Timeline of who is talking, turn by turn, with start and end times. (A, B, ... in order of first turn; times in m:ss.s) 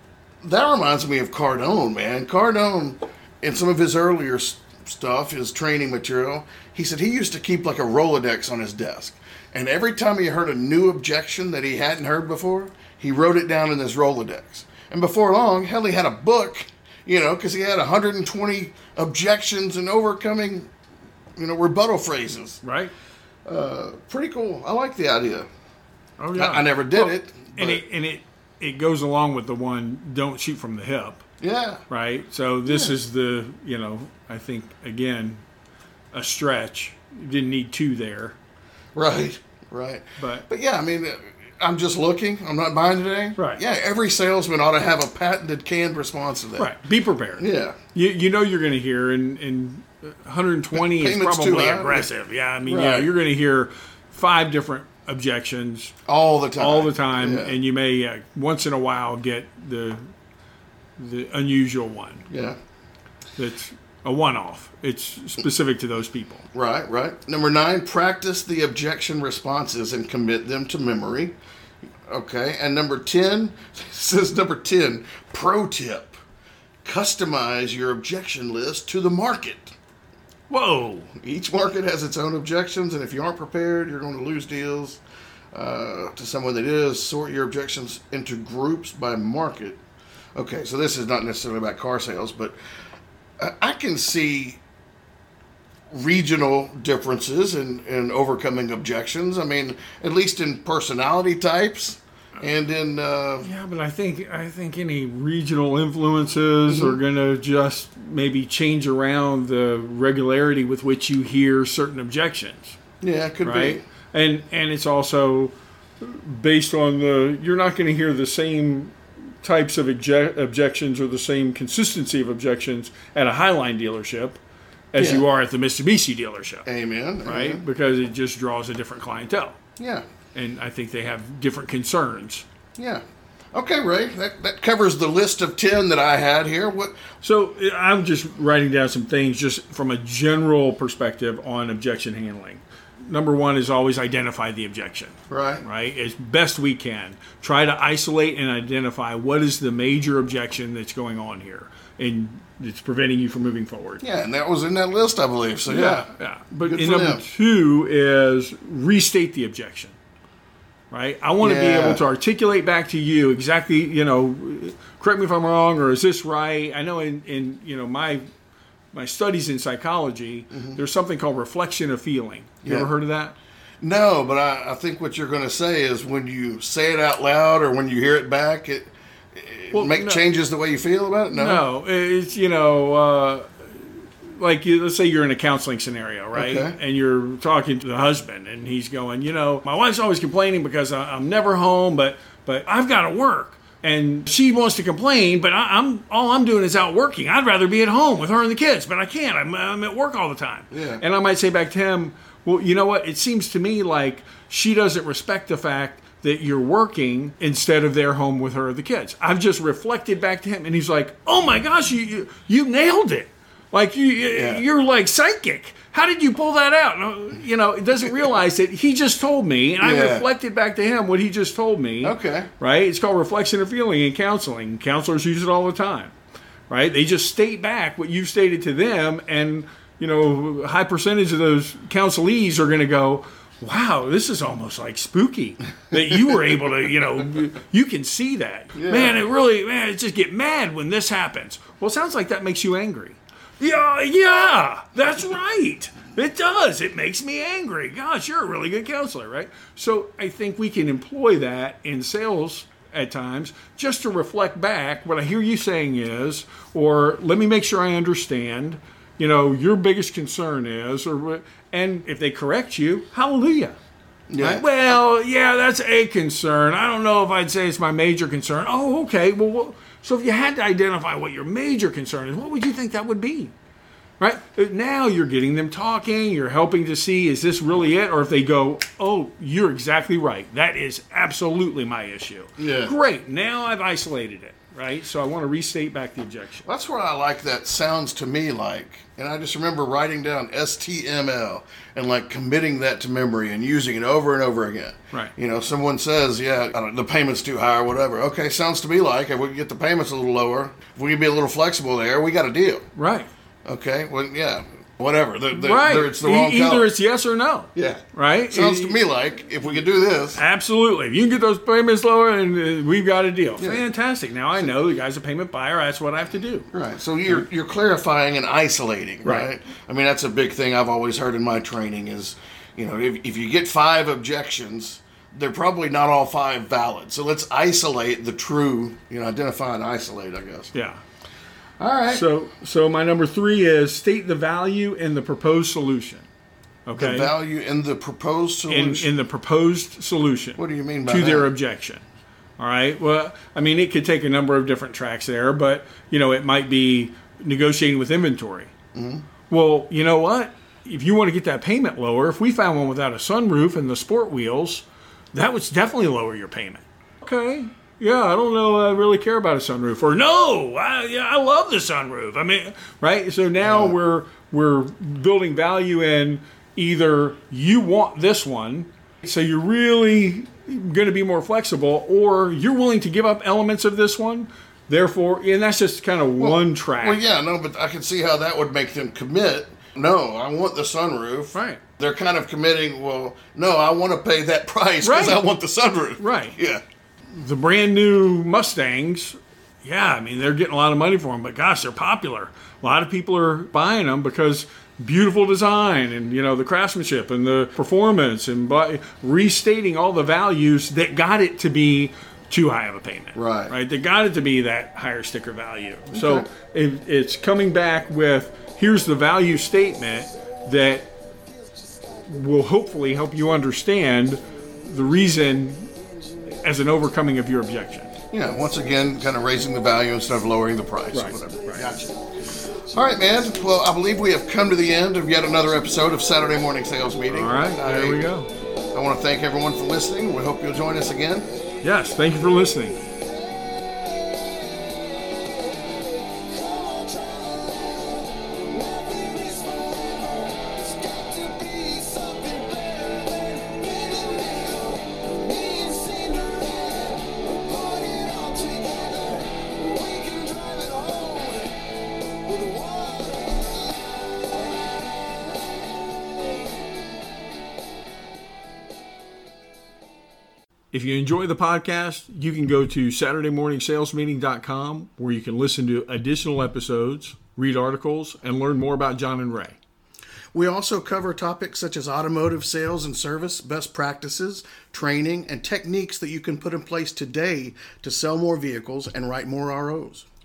0:00.4-0:20.7 A
0:21.4-0:22.6 A
0:22.6-0:22.9 B
0:23.4-0:25.5 A
0:26.2-0:31.2 B
0:26.4-0:27.8 A
0:31.4-0:31.8 A
0:31.9-0:35.4 B
0:32.7-0:33.0 A
0:36.1-0:38.4 B
0:39.0-0:46.7 A
0:40.2-0:40.5 B
0:46.6-0:55.9 B
0:47.4-0:47.8 A
0:50.7-0:52.1 A
0:52.6-0:53.1 A
0:56.1-0:57.6 A
0:56.6-1:00.0 B
1:01.0-1:02.3 B
1:02.3-1:02.6 A
1:03.4-1:06.5 B
1:06.5-1:11.4 A
1:12.1-1:16.2 A
1:16.8-1:19.8 A
1:20.5-1:21.1 B
1:21.2-1:25.0 A
1:25.5-1:29.8 A
1:30.4-1:32.6 A
1:33.4-1:34.6 A
1:35.9-1:43.5 A
1:43.4-1:52.8 B
1:46.7-1:47.0 A
1:53.0-1:53.8 A
1:53.4-2:04.4 B
2:04.9-2:06.7 B
2:05.0-2:05.2 A
2:06.7-2:07.6 A
2:07.2-2:09.6 B
2:09.8-2:10.0 A
2:10.4-2:12.5 B
2:12.8-2:17.0 A
2:17.2-2:34.0 B
2:25.3-2:25.6 A
2:34.0-2:36.1 A
2:35.7-2:40.0 B
2:36.6-2:37.2 A
2:40.9-2:48.2 B
2:41.4-2:42.0 A
2:48.9-2:53.4 B
2:50.5-2:50.8 A
2:52.6-2:52.9 A
2:53.8-3:01.6 A
2:59.7-3:00.2 B
3:01.3-3:46.1 B
3:06.3-3:06.8 A
3:20.7-3:21.0 A
3:34.3-3:34.6 A
3:39.8-3:40.3 A
3:42.0-3:42.5 A
3:46.7-4:23.8 B
3:58.8-3:59.2 A
4:24.3-4:24.6 A
4:24.4-4:33.5 B
4:34.2-4:46.7 B
4:42.6-4:42.9 A
4:46.6-5:02.8 A
5:03.0-5:03.3 B
5:03.7-5:06.9 A
5:05.5-5:09.0 B
5:07.8-5:10.4 A
5:10.4-5:16.7 B
5:16.7-5:30.7 A
5:30.7-5:31.0 B
5:31.8-5:32.3 A
5:32.1-5:36.3 B
5:36.9-5:37.3 B
5:37.0-5:39.1 A
5:38.7-5:42.0 B
5:40.6-5:41.5 A
5:42.6-5:48.7 B
5:48.9-5:49.3 A
5:49.5-6:17.2 B
6:03.6-6:04.0 A
6:16.4-6:26.8 A
6:21.5-6:21.8 B
6:25.0-6:25.4 B
6:26.2-6:26.6 B
6:27.3-6:51.1 B
6:43.4-6:43.7 A
6:46.1-6:46.5 A
6:52.3-6:55.9 B
6:56.6-6:58.1 B
6:58.3-7:02.1 A
7:01.1-7:01.8 B
7:02.7-7:08.2 A
7:07.3-7:08.5 B
7:08.9-7:11.5 A
7:11.8-7:13.0 B
7:13.4-7:36.8 C
7:40.9-7:49.8 B
7:50.5-8:00.2 A